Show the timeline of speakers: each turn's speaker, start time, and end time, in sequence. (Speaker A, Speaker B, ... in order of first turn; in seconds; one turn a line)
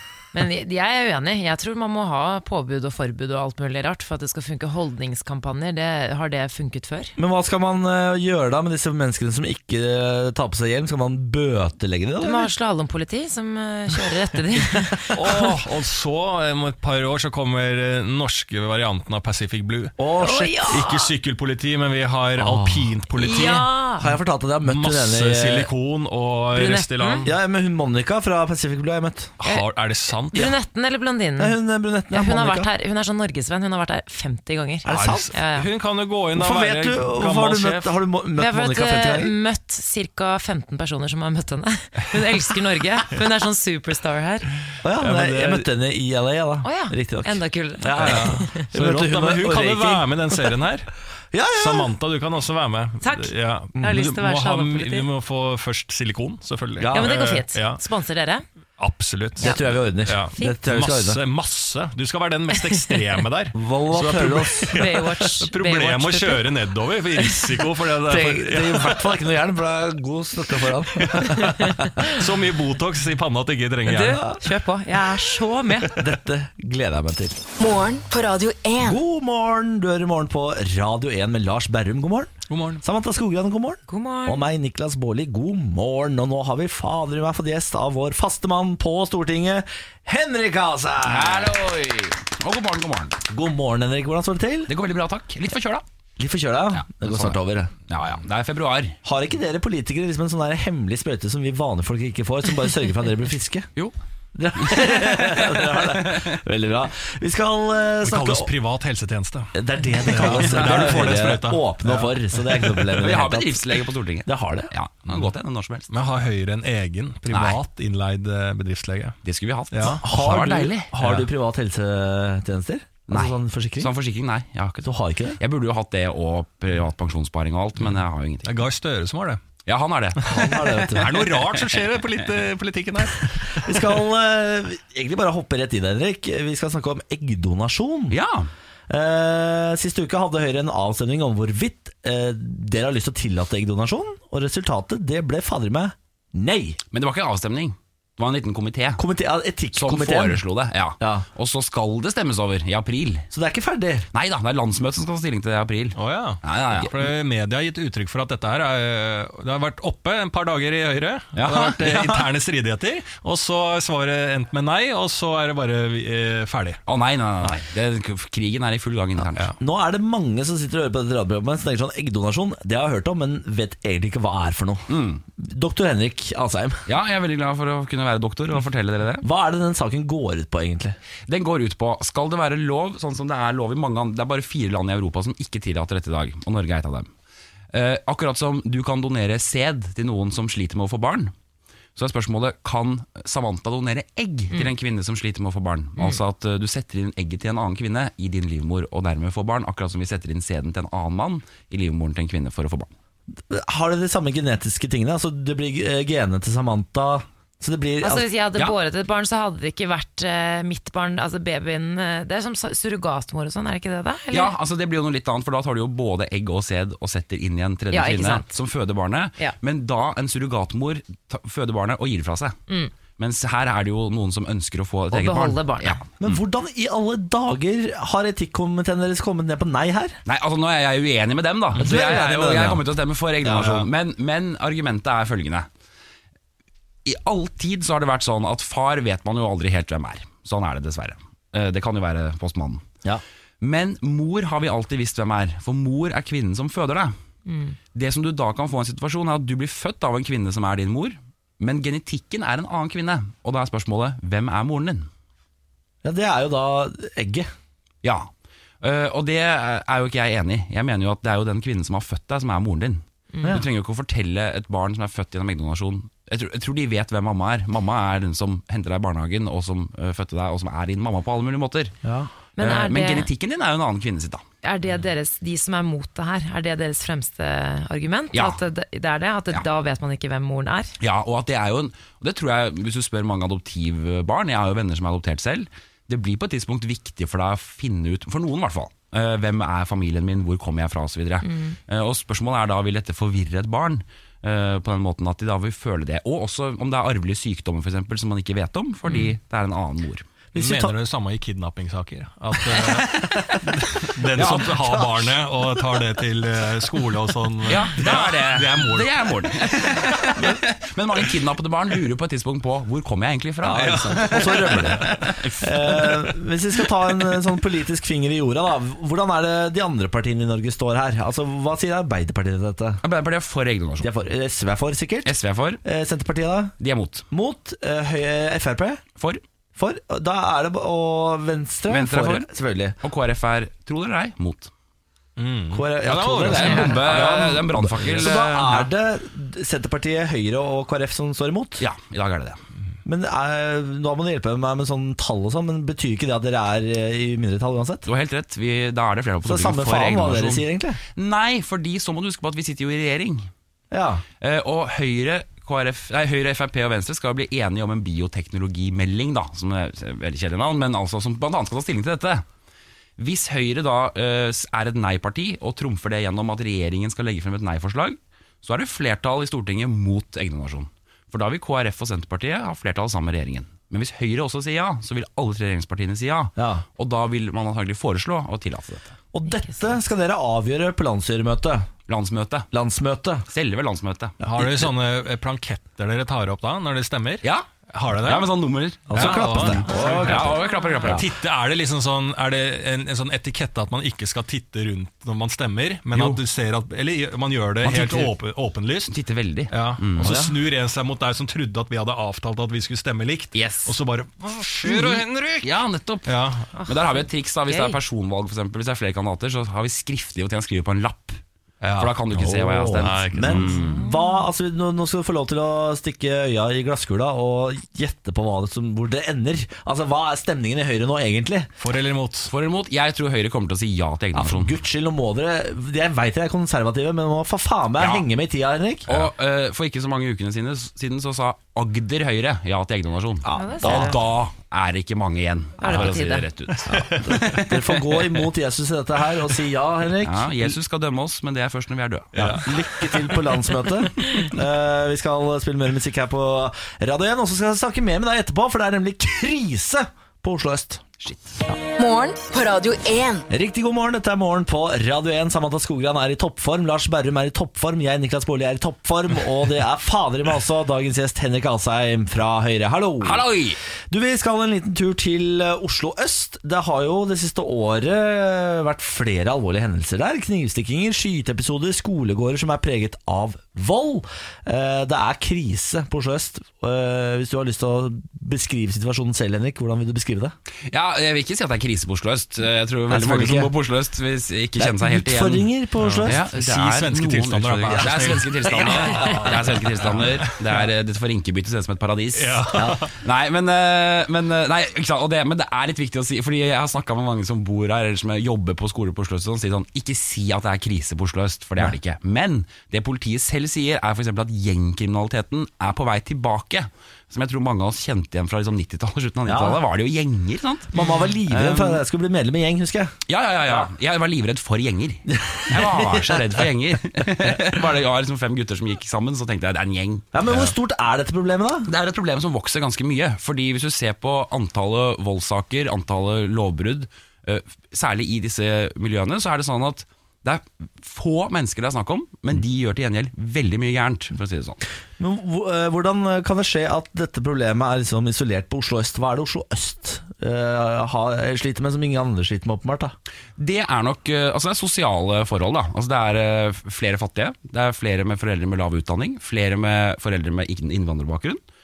Speaker A: 0.3-7.1
Speaker B: 7.2-12.5
Speaker A: 12.2-15.6
Speaker C: 15.1-19.9
Speaker B: 20.0-20.8
Speaker A: 20.2-21.1
Speaker C: 20.6-23.7
Speaker B: 22.4-23.0
Speaker A: 23.1-24.2
Speaker B: 24.0-25.7
Speaker C: 24.6-27.3
Speaker A: 26.5-27.2
Speaker B: 27.2-29.3
Speaker C: 29.4-30.6
Speaker A: 30.3-31.6
Speaker B: 31.4-32.7
Speaker A: 32.1-35.7
Speaker B: 34.8-35.3
Speaker C: 34.9-38.0
Speaker B: 36.3-39.3
Speaker A: 38.4-44.5
Speaker B: 44.8-50.5
Speaker C: 45.0-45.7
Speaker A: 46.6-48.7
Speaker C: 48.0-50.9
Speaker B: 51.3-51.9
Speaker C: 51.5-57.8
Speaker A: 53.0-55.1
Speaker B: 56.8-57.1
Speaker A: 56.9-58.4
Speaker C: 58.8-69.2
Speaker B: 59.4-61.2
Speaker A: 62.6-63.0
Speaker B: 63.5-64.8
Speaker A: 64.7-66.5
Speaker A: 67.2-67.6
Speaker B: 68.0-71.9
Speaker C: 71.0-74.3
Speaker A: 71.4-72.0
Speaker A: 73.8-76.0
Speaker B: 75.9-77.4
Speaker D: 77.6-79.0
Speaker B: 78.8-91.6
Speaker C: 82.5-82.8
Speaker A: 83.9-84.4
Speaker E: 91.0-93.2
Speaker B: 93.3-94.7
Speaker E: 94.7-95.8
Speaker B: 96.2-97.7
Speaker E: 96.8-99.0
Speaker B: 99.0-103.7
Speaker B: 104.3-108.5
Speaker E: 104.5-106.4
Speaker C: 108.0-112.9
Speaker B: 109.5-114.7
Speaker E: 110.2-111.1
Speaker E: 113.0-115.9
Speaker C: 115.9-119.2
Speaker E: 117.3-117.6
Speaker E: 119.2-120.9
Speaker C: 119.7-120.4
Speaker B: 120.0-123.9
Speaker C: 121.0-121.3
Speaker E: 123.1-124.9
Speaker B: 124.8-125.4
Speaker E: 125.4-128.6
Speaker C: 128.4-129.4
Speaker E: 129.7-132.2
Speaker B: 130.2-131.2
Speaker C: 130.9-133.9
Speaker B: 133.5-138.2
Speaker E: 138.1-138.5
Speaker B: 138.9-146.8
Speaker E: 146.9-149.0
Speaker B: 149.0-150.4
Speaker E: 149.7-153.3
Speaker B: 151.0-151.3
Speaker B: 153.3-154.1
Speaker E: 154.1-157.0
Speaker C: 155.9-166.8
Speaker E: 161.3-161.9
Speaker E: 166.9-169.5
Speaker B: 169.6-176.8
Speaker E: 174.9-175.2
Speaker E: 176.9-179.2
Speaker B: 179.2-181.0
Speaker E: 181.3-187.1
Speaker E: 187.7-191.3
Speaker E: 191.9-202.9
Speaker B: 203.3-208.2
Speaker A: 208.0-214.5
Speaker E: 214.3-222.5
Speaker A: 217.9-218.5
Speaker E: 223.2-226.4
Speaker A: 225.1-226.0
Speaker B: 226.2-230.2
Speaker E: 230.2-235.7
Speaker B: 231.8-232.8
Speaker B: 233.4-233.9
Speaker E: 237.0-242.8
Speaker E: 243.6-247.1
Speaker A: 247.5-247.8
Speaker E: 247.9-255.1
Speaker B: 256.0-257.5
Speaker E: 258.0-258.3
Speaker E: 258.8-271.9
Speaker A: 263.3-263.6
Speaker B: 272.0-272.3
Speaker A: 272.6-273.3
Speaker E: 272.6-274.4
Speaker A: 274.6-281.0
Speaker E: 278.3-278.6
Speaker E: 281.0-300.2
Speaker A: 291.4-291.8
Speaker A: 299.0-299.3
Speaker B: 300.5-300.9
Speaker C: 300.6-310.5
Speaker E: 302.7-303.7
Speaker E: 304.3-305.3
Speaker E: 307.6-315.7
Speaker B: 313.6-323.0
Speaker C: 313.7-315.3
Speaker E: 323.0-324.1
Speaker B: 324.0-326.7
Speaker E: 325.2-325.8
Speaker E: 326.8-327.3
Speaker B: 327.3-329.0
Speaker B: 329.8-333.0
Speaker E: 331.9-332.5
Speaker E: 333.0-334.7
Speaker C: 335.4-338.2
Speaker B: 335.7-341.8
Speaker E: 336.5-338.9
Speaker A: 336.6-336.9
Speaker E: 341.8-342.6
Speaker B: 343.0-348.1
Speaker E: 348.0-353.5
Speaker B: 349.4-351.0
Speaker B: 353.9-354.2
Speaker E: 354.4-362.4
Speaker E: 363.2-379.2
Speaker B: 376.6-376.8
Speaker B: 379.3-381.9
Speaker A: 379.4-379.8
Speaker E: 382.1-382.7
Speaker B: 382.7-383.4
Speaker E: 383.5-384.4
Speaker C: 384.4-388.5
Speaker E: 387.4-387.7
Speaker E: 388.2-391.2
Speaker B: 389.1-391.2
Speaker C: 389.1-399.1
Speaker A: 389.9-391.1
Speaker E: 396.1-396.4
Speaker E: 397.8-398.3
Speaker E: 399.1-400.4
Speaker C: 399.7-405.7
Speaker B: 400.2-400.5
Speaker E: 403.5-403.9
Speaker E: 404.8-406.3
Speaker C: 406.2-406.7
Speaker A: 406.7-408.0
Speaker E: 406.9-411.4
Speaker C: 411.8-413.9
Speaker E: 412.0-413.9
Speaker B: 412.3-421.7
Speaker A: 413.7-414.4
Speaker C: 421.8-422.5
Speaker E: 422.5-424.8
Speaker B: 424.3-429.1
Speaker E: 428.0-428.2
Speaker E: 429.1-438.2
Speaker B: 433.4-434.2
Speaker A: 433.6-434.2
Speaker A: 435.8-436.5
Speaker C: 436.7-437.5
Speaker B: 436.9-440.8
Speaker E: 440.2-442.7
Speaker C: 442.3-443.4
Speaker B: 442.4-451.0
Speaker E: 451.2-451.6
Speaker D: 451.9-453.4
Speaker B: 453.5-463.4
Speaker E: 463.2-463.8
Speaker B: 464.1-480.5
Speaker E: 480.9-485.7
Speaker B: 483.1-483.7
Speaker B: 484.8-486.4
Speaker C: 486.0-490.6
Speaker E: 486.2-512.0
Speaker B: 488.7-489.5
Speaker C: 492.3-493.1
Speaker B: 492.7-493.0
Speaker B: 509.4-509.8
Speaker B: 510.9-513.1
Speaker A: 510.9-511.3
Speaker E: 513.3-520.7
Speaker B: 515.3-516.6
Speaker B: 520.3-521.9
Speaker E: 521.9-534.8
Speaker B: 535.2-543.1
Speaker E: 543.6-551.6